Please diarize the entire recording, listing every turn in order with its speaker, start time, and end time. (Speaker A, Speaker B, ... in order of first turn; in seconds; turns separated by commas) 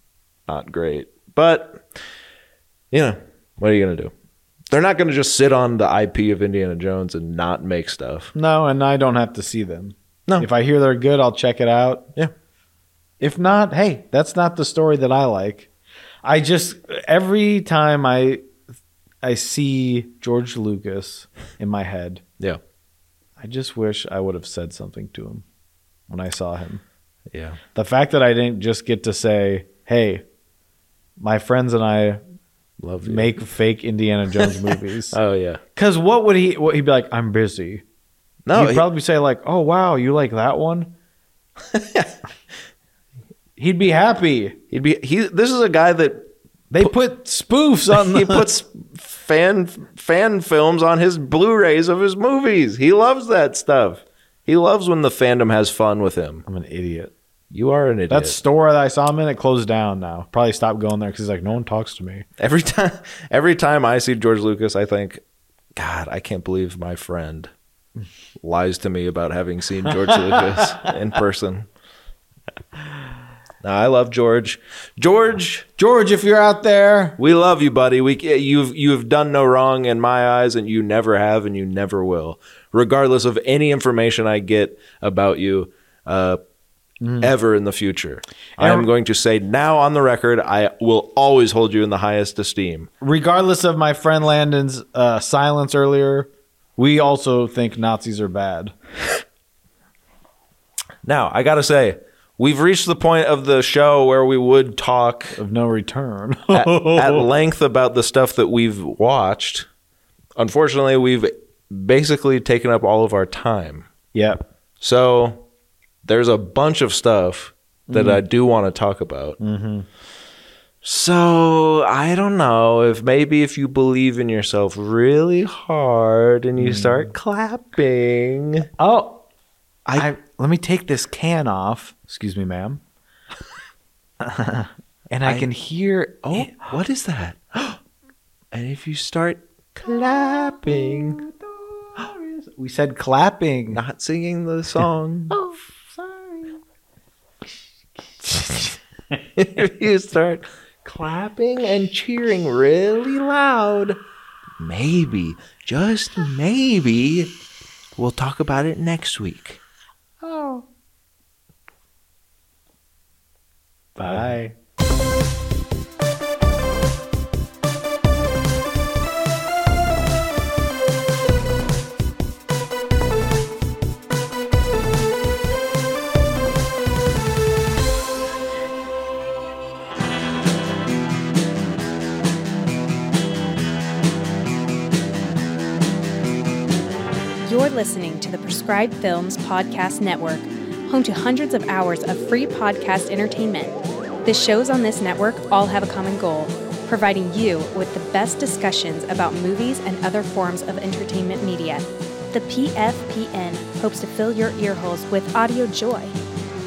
Speaker A: 0.5-1.9, Speaker A: 2.9-4.1, Speaker A: 4.7-8.3, Speaker B: 8.3-12.1, Speaker B: 13.2-15.7, Speaker B: 16.2-18.4, Speaker B: 19.2-22.2, Speaker B: 23.4-25.4, Speaker B: 26.1-26.8, Speaker A: 27.3-27.6, Speaker B: 27.7-30.2, Speaker B: 31.2-32.2, Speaker A: 32.8-33.3, Speaker B: 33.0-35.2, Speaker A: 35.1-35.6, Speaker B: 35.8-37.8, Speaker A: 38.5-38.9, Speaker B: 38.5-40.9, Speaker A: 41.7-42.1, Speaker B: 43.6-44.6, Speaker A: 44.7-46.3, Speaker B: 46.7-48.5, Speaker A: 47.9-56.4, Speaker B: 56.5-57.1, Speaker A: 57.5-58.4, Speaker B: 58.1-62.2, Speaker A: 62.4-65.2, Speaker A: 65.8-67.5, Speaker A: 68.4-71.7, Speaker B: 70.1-70.9, Speaker A: 73.6-75.6, Speaker B: 75.8-77.2, Speaker A: 77.2-86.4, Speaker B: 87.0-87.3, Speaker A: 87.2-92.9, Speaker B: 88.6-88.9, Speaker B: 93.0-98.7, Speaker A: 101.0-105.4, Speaker B: 105.3-107.2, Speaker A: 106.5-109.7, Speaker A: 110.4-113.9, Speaker B: 114.1-114.4, Speaker A: 114.8-115.4, Speaker A: 116.0-119.4, Speaker B: 117.9-118.2, Speaker B: 119.4-119.8, Speaker A: 120.8-128.7, Speaker B: 126.6-127.1, Speaker B: 128.8-129.2, Speaker B: 129.9-132.8, Speaker B: 134.2-136.7, Speaker A: 136.2-137.8, Speaker A: 138.5-141.2, Speaker B: 142.0-143.8, Speaker A: 143.7-145.6, Speaker A: 148.3-148.6, Speaker A: 149.3-154.0, Speaker A: 154.6-157.3, Speaker A: 158.0-159.6, Speaker B: 163.9-164.5, Speaker A: 164.0-164.3, Speaker C: 187.4-206.1